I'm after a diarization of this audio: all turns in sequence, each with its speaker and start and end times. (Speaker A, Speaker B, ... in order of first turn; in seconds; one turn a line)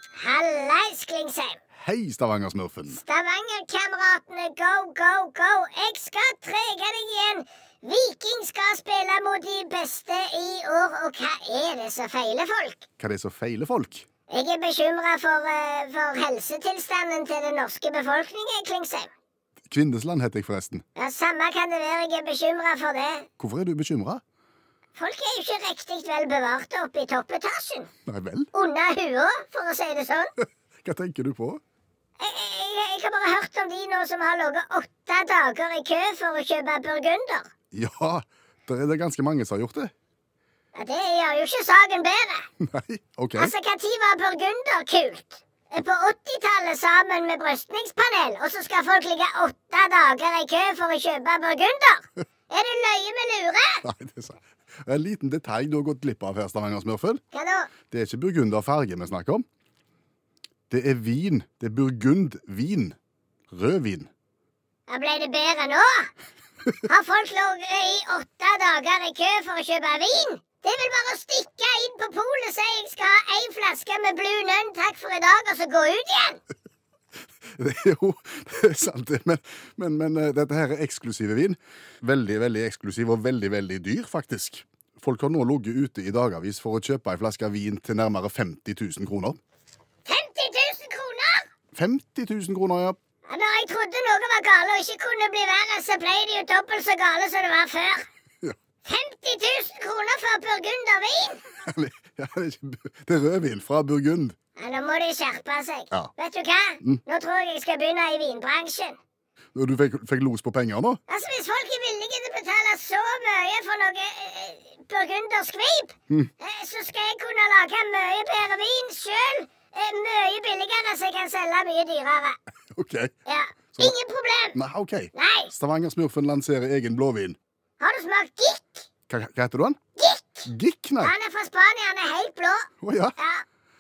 Speaker A: 0.2-1.6
Speaker B: 1.8-3.0
Speaker A: 2.9-12.9
Speaker B: 13.0-14.1
Speaker A: 14.3-19.1
Speaker B: 19.6-20.9
Speaker A: 21.0-23.3
Speaker B: 23.4-24.2
Speaker A: 24.9-27.9
Speaker B: 28.1-28.5
Speaker A: 28.5-30.3
Speaker B: 30.8-31.6
Speaker A: 32.2-37.5
Speaker B: 37.7-39.9
Speaker A: 40.7-42.5
Speaker B: 42.6-43.5
Speaker A: 43.4-53.8
Speaker B: 53.8-57.2
Speaker A: 57.3-57.7
Speaker B: 57.9-59.5
Speaker B: 60.7-63.0
Speaker B: 63.5-64.1
Speaker A: 64.9-66.1
Speaker A: 66.9-76.4
Speaker B: 77.6-89.4
Speaker A: 90.1-91.5
Speaker B: 91.7-93.0
Speaker A: 93.3-98.1
Speaker A: 98.8-101.5
Speaker B: 101.7-104.4
Speaker A: 104.6-109.0
Speaker B: 109.5-111.0
Speaker A: 111.1-122.4
Speaker B: 122.8-123.1
Speaker A: 123.3-124.6
Speaker B: 124.5-127.4
Speaker A: 125.2-125.5
Speaker A: 127.8-128.9
Speaker B: 129.1-129.8
Speaker A: 130.0-130.5
Speaker B: 130.5-131.1
Speaker A: 131.0-133.4
Speaker B: 132.8-133.2